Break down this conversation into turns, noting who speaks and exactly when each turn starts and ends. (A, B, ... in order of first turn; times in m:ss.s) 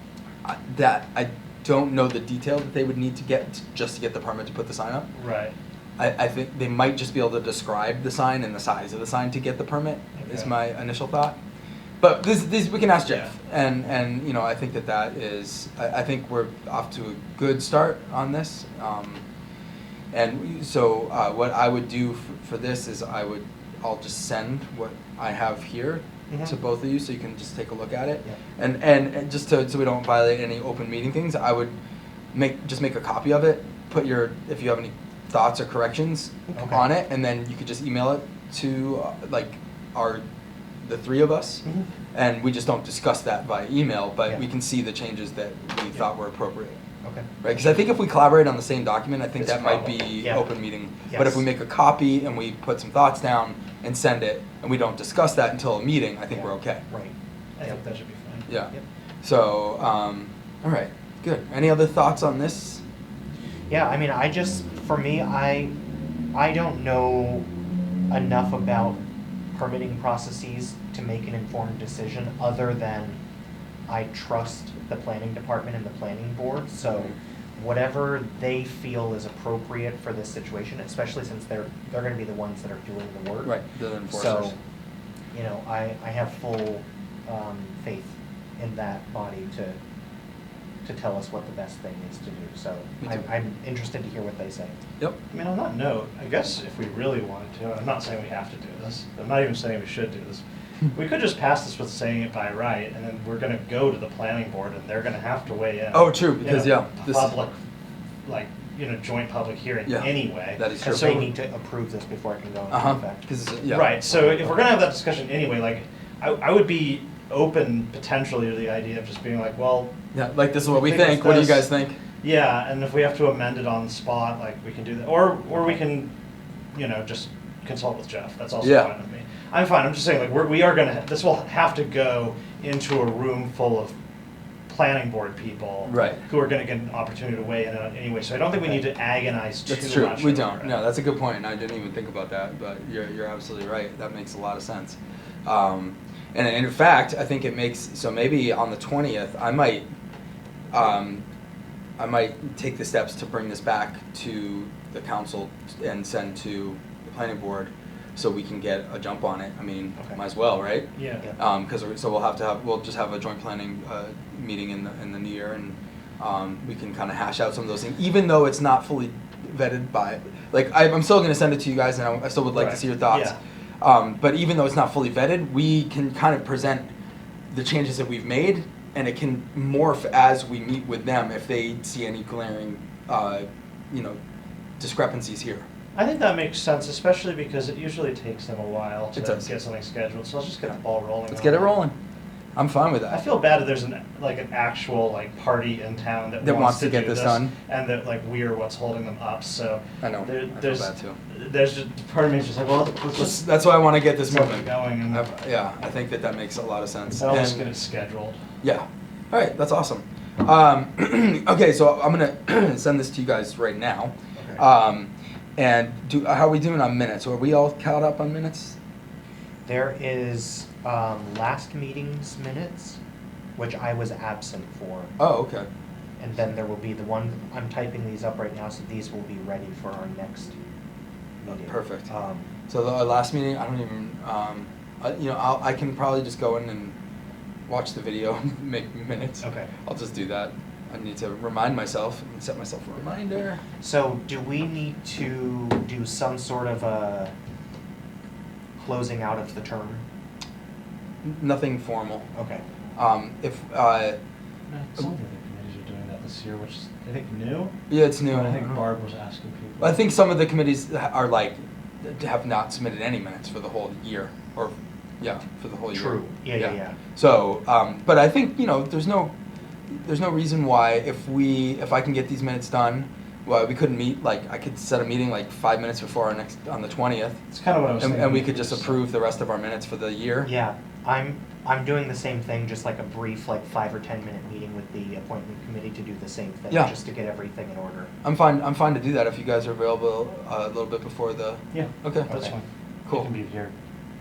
0:00.4-0:05.1 A
0:05.1-0:05.6 B
0:06.0-0:11.4 A
0:10.2-0:10.5 B
0:12.0-0:19.2 A
0:13.0-0:13.3 B
0:20.1-0:31.8 A
0:26.3-0:26.6 B
0:32.3-0:40.2 A
0:36.6-0:36.8 C
0:40.8-0:46.8 A
0:47.0-0:47.6 C
0:47.4-0:56.8 A
0:49.4-0:50.5 C
0:51.1-0:51.5 C
0:56.3-0:57.1 C
0:57.6-0:58.5 B
0:58.5-1:02.8 A
1:03.7-1:05.7 C
1:06.3-1:07.5 C
1:08.1-1:09.0 C
1:09.5-1:13.2 C
1:13.9-1:23.6 C
1:16.9-1:17.1 A
1:23.4-1:24.6 A
1:24.1-1:24.6 C
1:25.3-1:29.8 C
1:30.8-1:34.8 C
1:33.0-1:33.3 A
1:35.3-1:47.6 B
1:45.9-1:47.3 A
1:48.2-1:51.3 B
1:49.9-1:51.2 A
1:50.8-1:53.2 C
1:52.7-1:54.0 A
1:53.7-1:59.9 B
2:00.1-2:02.0 A
2:00.7-2:01.7 B
2:02.2-2:06.1 B
2:06.7-2:13.9 B
2:08.6-2:08.9 A
2:14.7-2:20.7 B
2:15.9-2:16.2 A
2:19.7-2:29.9 A
2:30.7-2:31.2 A
2:32.0-2:56.9 A
2:40.9-2:41.3 B
2:52.5-2:53.4 B
2:57.5-3:04.2 A
3:04.8-3:05.7 A
3:06.0-3:11.8 B
3:09.2-3:09.5 A
3:11.3-3:12.0 A
3:12.6-3:13.3 A
3:13.1-3:23.5 B
3:16.4-3:17.5 A
3:20.0-3:21.2 A
3:23.2-3:27.7 A
3:24.2-3:25.3 B
3:27.2-3:28.4 B
3:28.6-3:38.8 A
3:39.6-3:43.0 C
3:43.6-3:45.1 C
3:45.2-3:45.7 A
3:46.2-3:50.6 C
3:51.4-3:52.5 C
3:51.5-3:52.1 A
3:52.7-3:57.0 A
3:57.7-4:03.6 A
3:59.4-3:59.7 C
4:03.8-4:07.3 C
4:08.8-4:10.0 C
4:11.2-4:12.3 A
4:12.3-4:12.6 C
4:13.0-4:14.2 A
4:14.7-4:17.8 B
4:17.9-4:18.7 A
4:18.3-4:20.0 B
4:19.8-4:29.3 A
4:25.9-4:27.0 C
4:29.9-4:37.4 A
4:37.5-4:39.0 B
4:38.0-4:40.5 A
4:40.4-4:48.1 C
4:48.2-4:52.4 A
4:51.7-4:53.7 B
4:52.3-4:52.5 C